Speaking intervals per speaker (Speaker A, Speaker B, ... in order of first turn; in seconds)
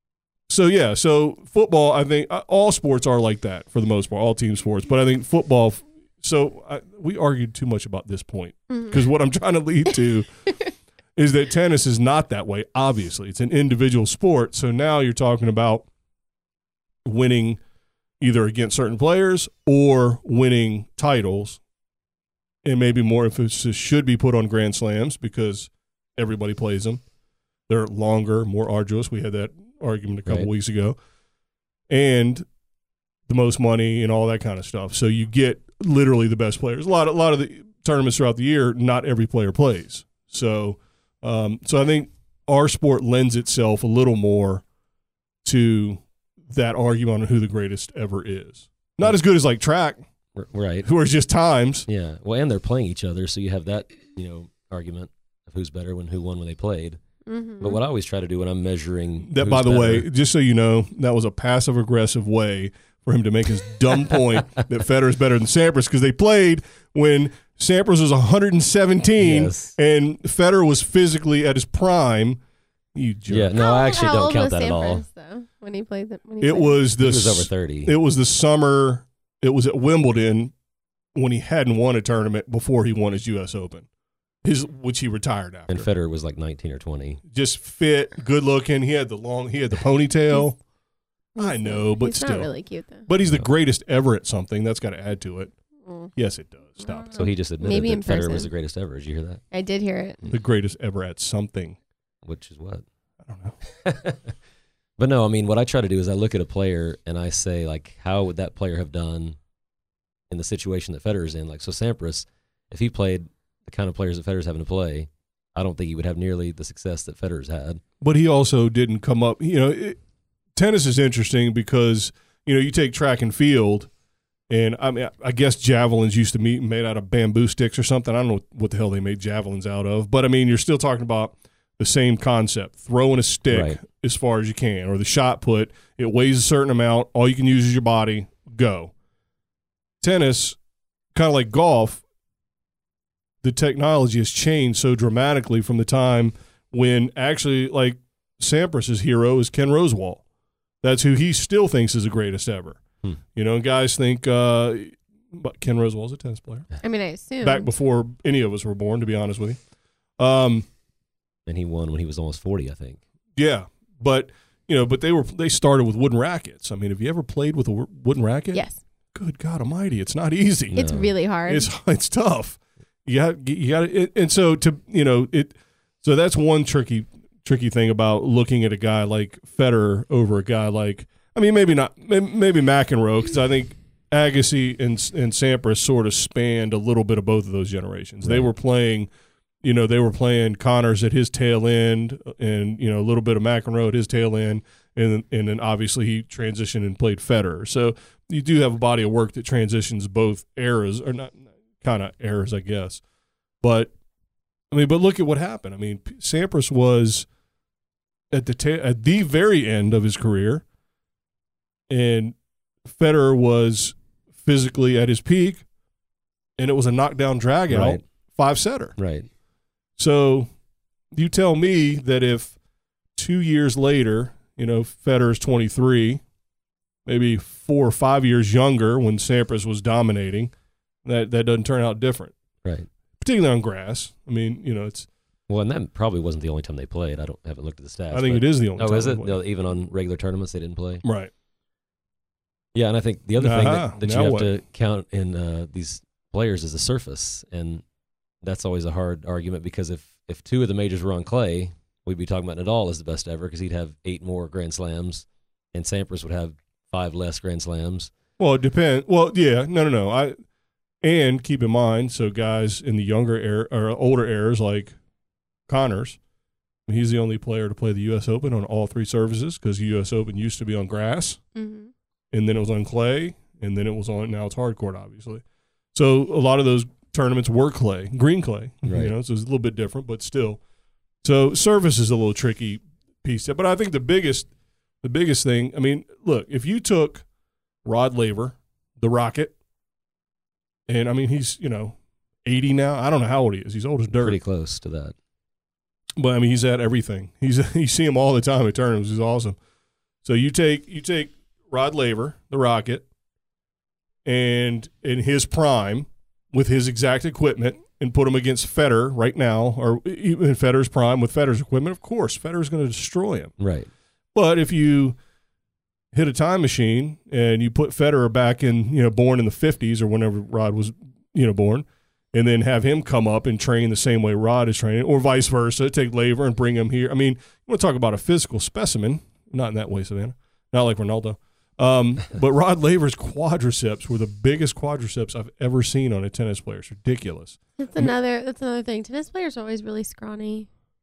Speaker A: 0.5-10.3, 11.2-15.8, 17.0-17.6, 18.2-21.6, 22.6-27.0, 27.7-31.0, 31.9-32.5, 33.3-44.6, 45.4-50.0, 50.8-51.9, 59.2-72.4, 72.9-73.5, 76.4-80.5, 81.1-83.9, 84.4-85.9, 87.3-90.6, 91.4-92.5, 93.1-95.5, 96.2-97.2, 100.3-101.8, 103.2-103.5, 118.0-120.0, 120.5-123.9, 124.5-138.9, 140.0-140.6, 141.1-142.0, 143.4-150.2, 150.8-152.8, 153.3-156.7, 157.4-159.6, 160.2-160.7, 163.3-168.6, 169.1-170.8, 171.5-189.1, 189.6-203.0, 203.6-203.9, 204.7-207.3, 208.3-210.6, 211.9-215.6, 216.6-218.9, 220.0-220.5, 221.1-222.6, 223.1-226.2, 227.1-230.5, 231.0-232.3, 233.2-235.1, 238.1-239.4, 241.0-241.3, 243.4-244.5, 258.4-260.4, 261.0-264.9, 265.7-266.2, 266.9-271.4, 272.3-275.4, 275.9-280.6, 281.2-284.5, 285.0-287.2, 287.8-289.5, 290.9-294.4, 296.2-299.6, 300.2-303.0, 304.2-313.5, 314.3-315.2, 316.1-338.1
Speaker B: 8.7-9.0, 57.2-57.8, 73.5-76.8, 91.3-93.1, 95.8-96.1, 96.8-98.5, 99.5-100.2, 156.8-157.7, 168.5-168.8, 170.7-171.7, 271.5-271.9, 337.8-340.7
Speaker C: 50.3-50.9, 51.9-57.0, 57.6-60.0, 69.2-69.7, 73.3-75.0, 77.0-77.9, 85.7-87.2, 97.1-99.4, 102.2-102.8, 103.7-104.3, 105.0-109.4, 110.3-117.8, 133.5-133.8, 161.4-163.0, 170.7-171.1, 217.7-218.0, 219.0-219.3, 235.5-241.0, 242.7-247.8, 248.4-258.1, 278.8-279.1, 294.1-295.1, 313.6-313.9